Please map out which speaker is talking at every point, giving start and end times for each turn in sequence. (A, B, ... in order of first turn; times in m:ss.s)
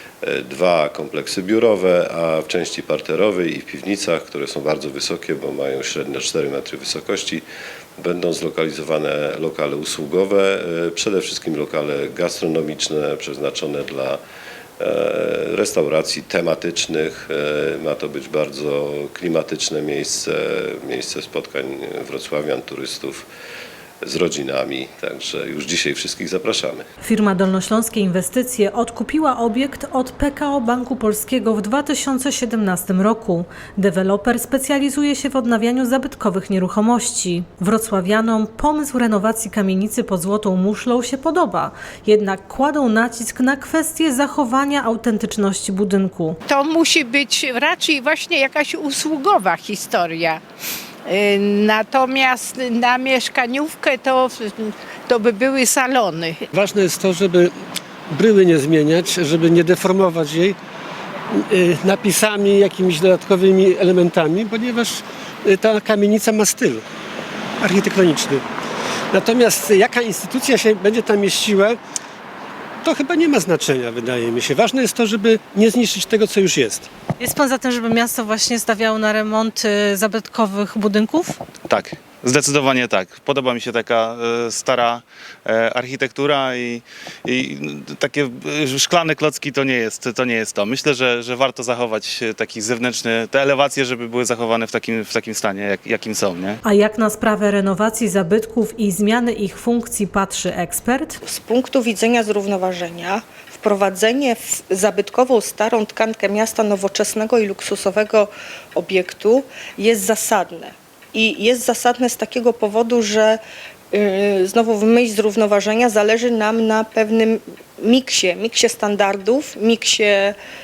0:00.2-0:07.4 A
0:08.0-0:14.2 A
0:14.8-0:23.2 A
0:24.0-0:26.8 A
0:27.0-0:46.4 B
0:46.4-0:50.4 C
0:51.0-0:56.4 C
0:56.5-0:57.5 D
0:58.1-1:00.6 D
1:01.5-1:06.8 D
1:07.6-1:08.4 D
1:09.1-1:11.8 D
1:12.8-1:16.9 D
1:17.2-1:21.4 B
1:21.7-1:36.6 E
1:36.6-1:41.2 B
1:41.2-1:53.4 F
1:53.9-2:00.4 F